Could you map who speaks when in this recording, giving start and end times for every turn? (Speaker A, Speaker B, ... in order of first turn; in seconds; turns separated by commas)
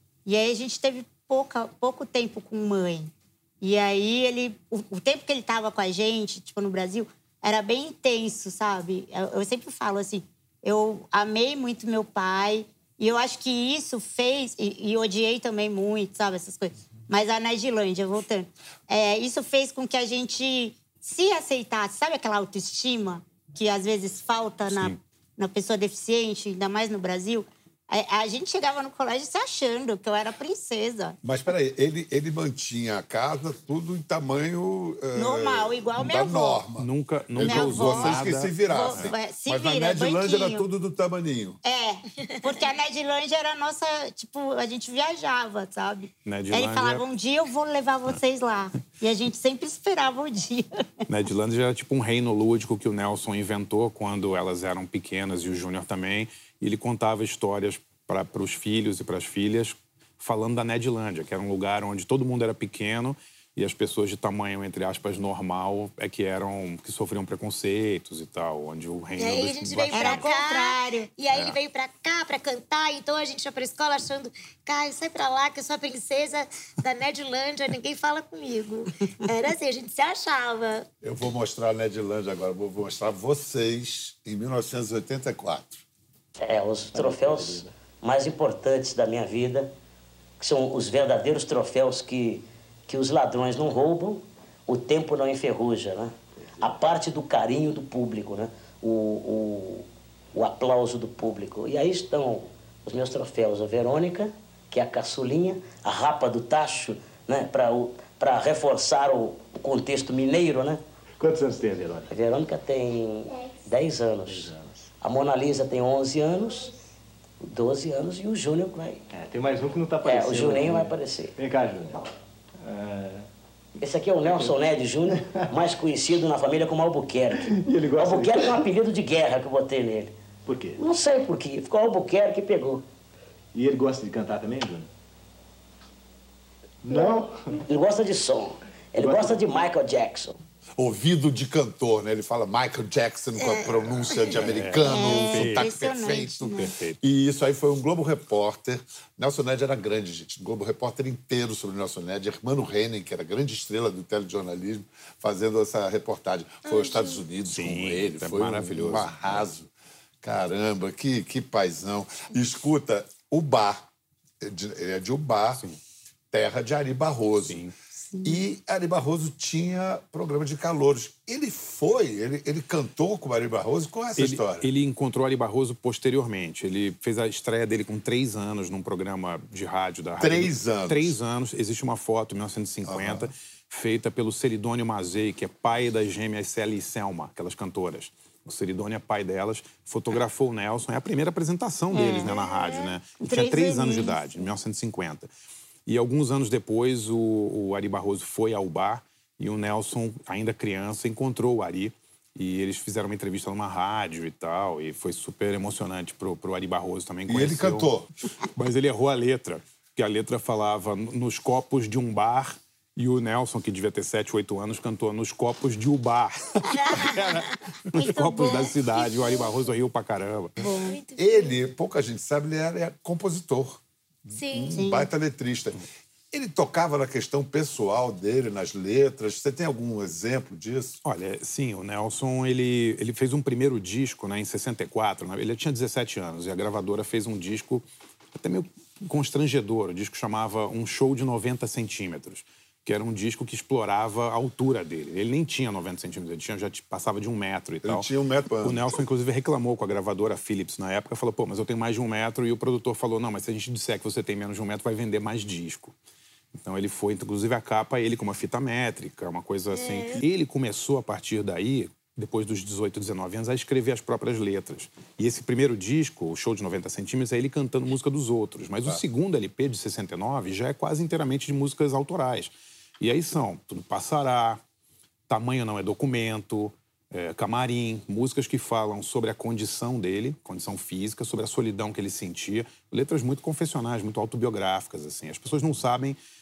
Speaker A: 0.2-31.2, Speaker B: 24.7-25.0, Speaker C: 31.2-41.6, Speaker A: 35.1-36.6, Speaker B: 36.8-39.1, Speaker A: 37.4-40.6, Speaker A: 41.6-50.7, Speaker B: 46.2-47.0, Speaker B: 51.1-70.3, Speaker D: 69.2-80.9, Speaker A: 69.9-71.1, Speaker C: 81.0-85.8, Speaker E: 86.4-89.7, Speaker F: 86.9-87.7, Speaker E: 90.4-110.8, Speaker F: 111.2-112.1, Speaker E: 112.1-116.7, Speaker F: 114.2-114.8, Speaker E: 117.4-119.0, Speaker F: 119.1-122.1, Speaker E: 120.0-121.3, Speaker F: 122.6-123.2, Speaker E: 123.8-130.1, Speaker F: 124.2-125.4, Speaker F: 127.4-128.7, Speaker F: 130.4-130.8, Speaker E: 130.8-132.8, Speaker F: 133.5-134.9, Speaker F: 136.8-137.5, Speaker E: 136.9-140.4, Speaker F: 139.0-139.4, Speaker C: 140.8-159.7, Speaker D: 143.4-144.4, Speaker B: 144.3-147.0, Speaker A: 144.8-146.7, Speaker D: 156.6-157.2, Speaker B: 157.5-159.5, Speaker C: 160.2-163.9, Speaker C: 164.4-165.6, Speaker C: 166.3-167.6, Speaker B: 167.5-167.7, Speaker A: 168.1-168.4, Speaker C: 168.2-174.7, Speaker B: 174.2-195.3, Speaker C: 180.2-181.2, Speaker C: 182.8-183.3, Speaker A: 191.9-192.3, Speaker D: 192.2-192.9, Speaker A: 193.2-194.5, Speaker B: 195.8-207.9, Speaker C: 207.3-208.1, Speaker B: 208.5-220.6, Speaker D: 216.7-217.6, Speaker A: 217.9-218.7, Speaker D: 218.9-219.5, Speaker A: 220.6-221.0, Speaker D: 220.8-221.6, Speaker C: 221.2-231.0, Speaker D: 224.3-224.7, Speaker A: 224.7-225.1, Speaker B: 231.0-248.1, Speaker C: 247.8-248.9, Speaker B: 248.6-255.9, Speaker B: 256.6-274.6, Speaker D: 259.7-260.2, Speaker B: 275.3-286.2